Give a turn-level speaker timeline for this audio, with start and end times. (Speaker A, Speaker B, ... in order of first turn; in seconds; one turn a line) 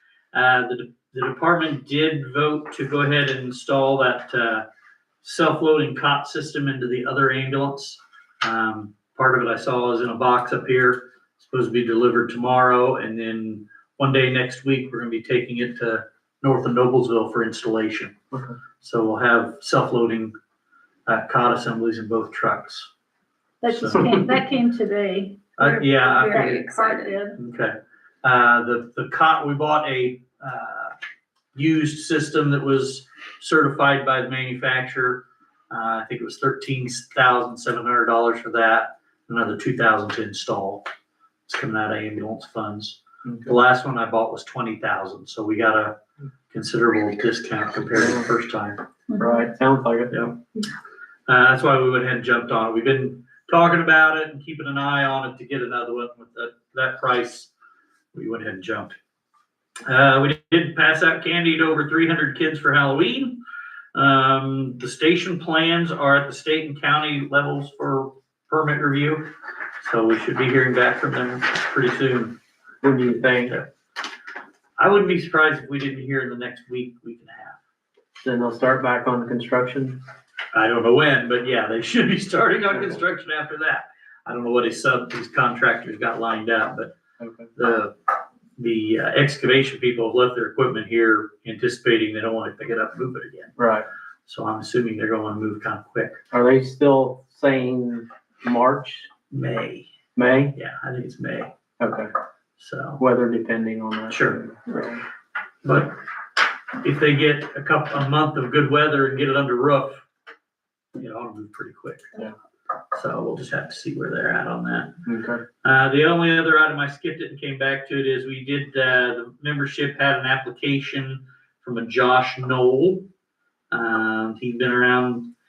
Speaker A: 0.3-4.7
Speaker A: 5.2-18.1
Speaker A: 18.8-20.4
Speaker A: 21.1-22.9
Speaker B: 23.6-27.4
Speaker A: 23.7-24.1
Speaker A: 25.6-26.6
Speaker A: 27.4-30.9
Speaker A: 31.5-40.9
Speaker A: 41.5-46.0
Speaker A: 46.5-48.8
Speaker C: 47.9-48.3
Speaker C: 49.1-50.2
Speaker A: 50.1-50.4
Speaker A: 51.3-57.5
Speaker A: 58.1-59.0
Speaker A: 59.9-63.4
Speaker A: 63.9-72.4
Speaker C: 72.8-73.6
Speaker A: 74.8-77.6
Speaker C: 78.2-80.0
Speaker A: 80.5-86.9
Speaker C: 87.2-87.5
Speaker A: 87.6-87.9
Speaker A: 88.6-93.5
Speaker C: 93.6-93.9
Speaker A: 94.3-96.2
Speaker C: 96.3-99.1
Speaker A: 99.3-99.9
Speaker C: 100.2-100.5
Speaker A: 100.5-101.5
Speaker C: 101.8-102.1
Speaker A: 102.6-103.0
Speaker C: 103.0-105.0
Speaker A: 104.1-104.4
Speaker A: 105.6-106.0
Speaker A: 106.8-110.0
Speaker A: 111.0-112.1
Speaker A: 112.9-115.0
Speaker C: 115.1-115.4
Speaker A: 115.6-123.1
Speaker A: 123.7-125.3